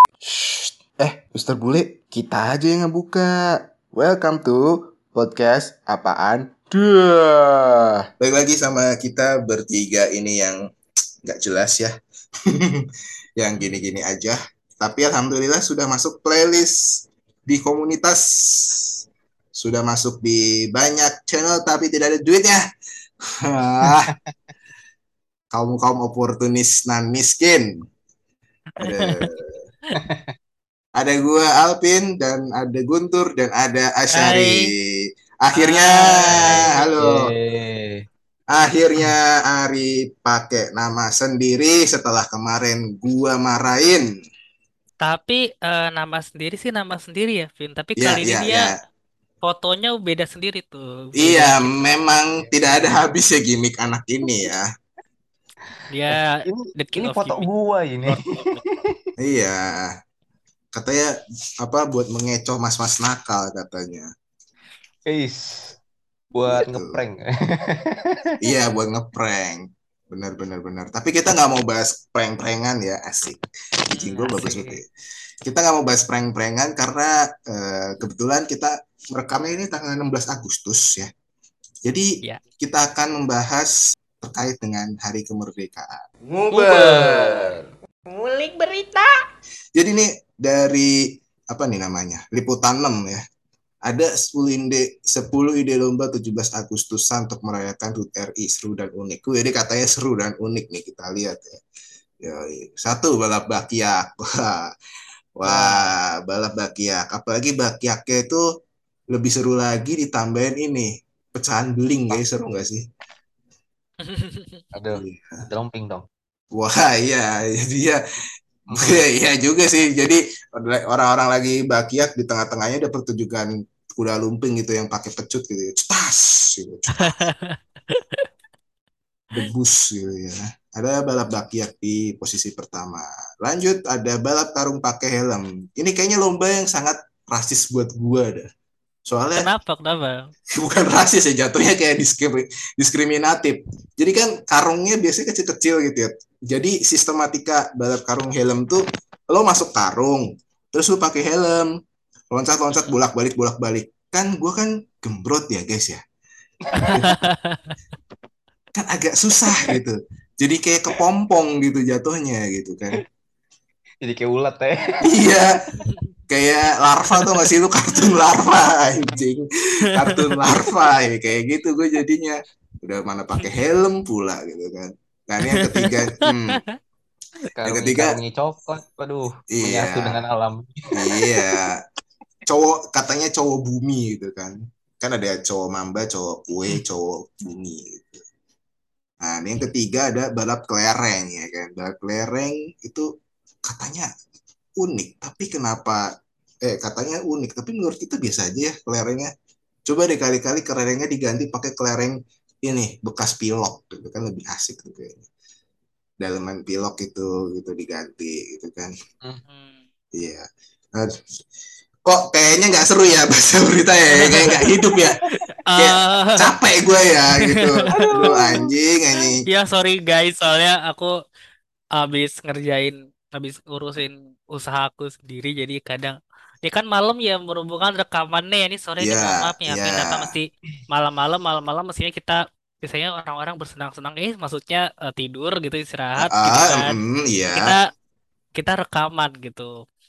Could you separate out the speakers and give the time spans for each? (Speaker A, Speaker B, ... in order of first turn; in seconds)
Speaker A: 0.2-10.6, 11.2-11.9, 12.5-12.8, 13.4-19.0, 19.6-22.6, 23.4-24.1, 25.5-27.7, 28.8-29.6, 31.0-34.7, 35.4-37.3, 38.5-44.1, 48.0-48.7, 51.2-54.7, 59.2-59.9, 60.7-64.1, 66.5-67.0, 68.4-74.8, 75.5-81.1, 81.8-87.5, 88.1-89.0, 89.8-91.0, 91.5-93.2, 93.9-101.6, 102.2-104.7, 105.4-108.4, 109.1-112.8, 115.0-115.4, 116.5-118.0, 118.8-127.2, 129.3-138.5, 139.1-139.5, 140.6-151.7, 152.3-156.0, 158.7-163.0, 165.1-165.6, 166.3-176.6, 177.6-178.2, 179.5-180.2, 180.9-181.8, 182.5-188.2, 189.2-193.1, 193.6-194.1, 194.8-196.0, 196.6-199.3, 199.8-205.2, 206.2-208.9, 210.1-210.4, 212.1-215.2, 215.8-219.4, 229.0-230.3, 236.2-237.7
Speaker B: 28.8-29.2, 34.1-34.6, 35.5-36.9, 45.0-48.7, 49.4-51.7, 55.9-57.5, 58.0-58.6, 73.9-74.5, 114.0-114.6, 127.0-128.2, 139.4-140.3, 156.9-157.7, 170.0-170.4, 175.5-176.7, 209.5-209.8, 214.1-214.6, 215.7-216.5, 217.3-217.6, 218.1-218.4, 219.4-221.1, 222.0-236.9, 238.6-239.7
Speaker C: 30.0-30.2, 36.4-38.0, 56.1-59.0, 65.1-65.8, 66.3-68.3, 86.5-87.7, 105.5-105.7, 114.8-116.0, 118.7-119.0, 156.7-157.1, 164.0-165.1, 177.6-181.4, 217.9-218.5